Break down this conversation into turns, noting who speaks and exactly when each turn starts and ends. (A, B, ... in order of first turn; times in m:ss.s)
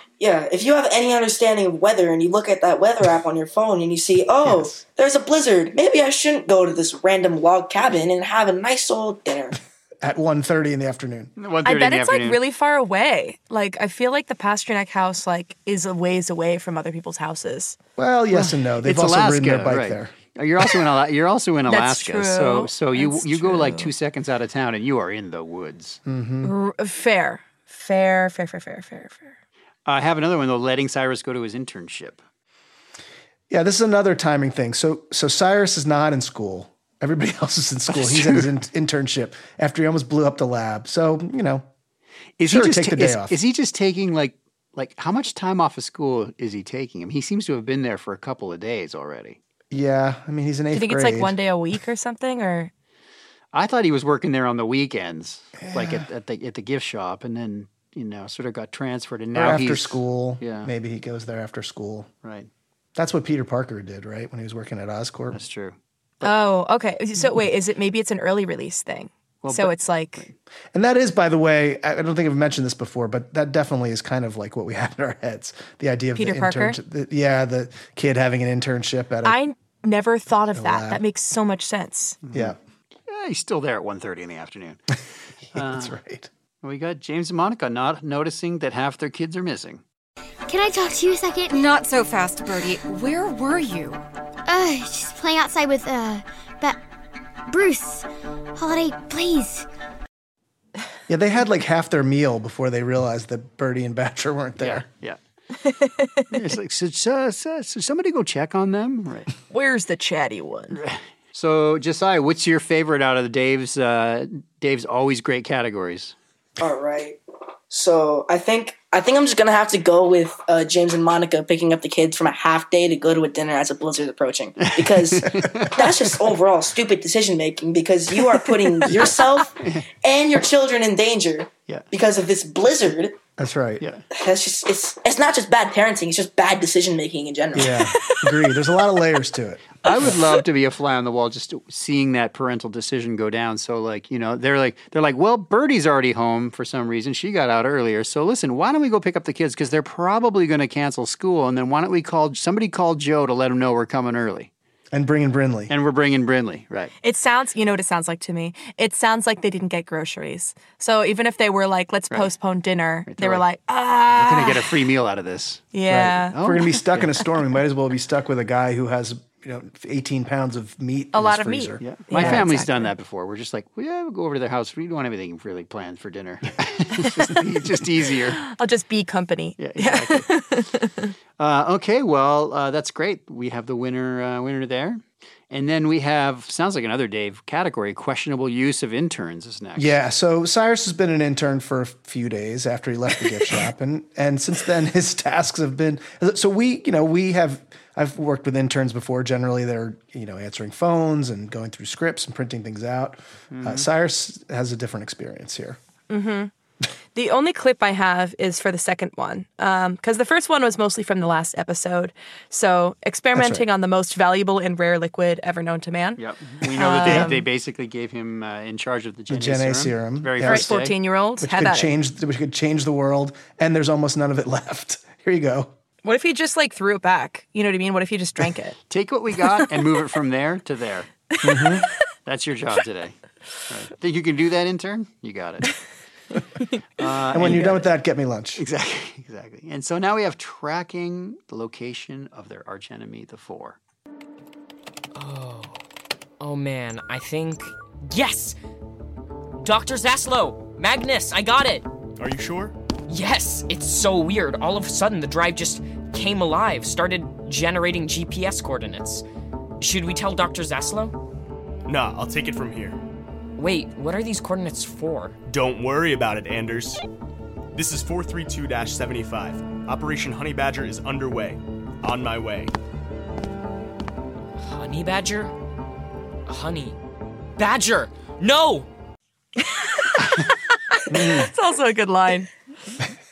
0:00.2-0:09.6 A
0:04.4-0:04.8 B
0:10.0-0:11.3 B
0:11.4-0:12.4 C
0:11.6-0:17.8 D
0:18.0-0:20.1 B
0:18.3-0:26.0 C
0:21.7-0:23.9 D
0:26.0-0:26.5 B
0:26.4-0:29.4 D
0:29.8-0:32.2 C
0:33.5-0:41.6 B
0:37.9-0:38.5 C
0:42.4-0:49.4 C
0:42.5-0:43.4 B
0:49.7-0:51.4 B
0:50.7-0:52.7 D
0:53.5-1:00.7 C
0:55.6-0:56.0 B
0:59.3-1:02.1 B
1:02.9-1:05.4 B
1:05.3-1:06.4 C
1:06.2-1:10.2 D
1:09.4-1:10.3 C
1:10.7-1:19.4 B
1:16.2-1:16.8 D
1:19.2-1:22.2 D
1:20.5-1:21.0 B
1:22.2-1:22.5 C
1:23.1-1:25.0 C
1:25.5-1:26.0 C
1:25.5-1:26.3 B
1:26.6-1:29.8 C
1:30.5-1:31.6 E
1:31.5-1:34.0 F
1:34.5-1:36.8 E
1:37.5-1:39.7 E
1:41.1-1:44.8 B
1:44.6-1:45.2 C
1:45.6-1:46.3 D
1:46.3-1:49.3 C
1:49.5-1:50.8 D
1:50.7-1:56.1 C
1:56.6-1:57.2 A
1:57.7-2:13.2 A
2:04.6-2:06.0 C
2:09.6-2:09.8 C
2:13.4-2:13.8 B
2:14.1-2:17.8 A
2:17.5-2:19.7 B
2:19.8-2:34.5 C
2:34.9-2:35.7 B
2:35.7-2:36.9 C
2:37.0-2:44.7 D
2:43.1-2:43.4 C
2:44.1-2:45.7 C
2:45.7-2:46.4 D
2:45.9-2:52.4 B
2:46.3-2:47.2 C
2:51.1-2:52.9 D
2:51.8-2:58.4 C
2:58.4-3:01.1 D
2:59.6-3:00.3 C
3:01.4-3:10.0 C
3:09.8-3:25.8 B
3:23.5-3:23.9 C
3:26.1-3:26.5 D
3:27.1-3:37.4 D
3:33.3-3:33.6 B
3:36.2-3:41.0 C
3:39.3-3:40.8 B
3:40.4-3:41.9 D
3:41.4-3:45.7 B
3:46.0-3:48.8 D
3:48.9-3:51.1 C
3:51.4-3:51.9 B
3:52.2-3:53.2 C
3:53.7-3:55.8 C
3:57.0-3:57.8 C
3:57.3-3:58.6 B
3:57.4-3:57.8 D
3:58.6-4:03.8 C
4:05.1-4:05.8 G
4:06.4-4:08.6 G
4:09.6-4:11.8 G
4:12.2-4:12.7 H
4:13.1-4:19.2 G
4:19.8-4:21.1 G
4:21.8-4:23.0 H
4:23.6-4:25.4 G
4:25.5-4:27.0 H
4:27.7-4:32.7 H
4:34.6-4:35.5 G
4:36.5-4:37.0 G
4:37.6-4:38.9 G
4:39.6-4:42.5 D
4:41.1-4:41.5 B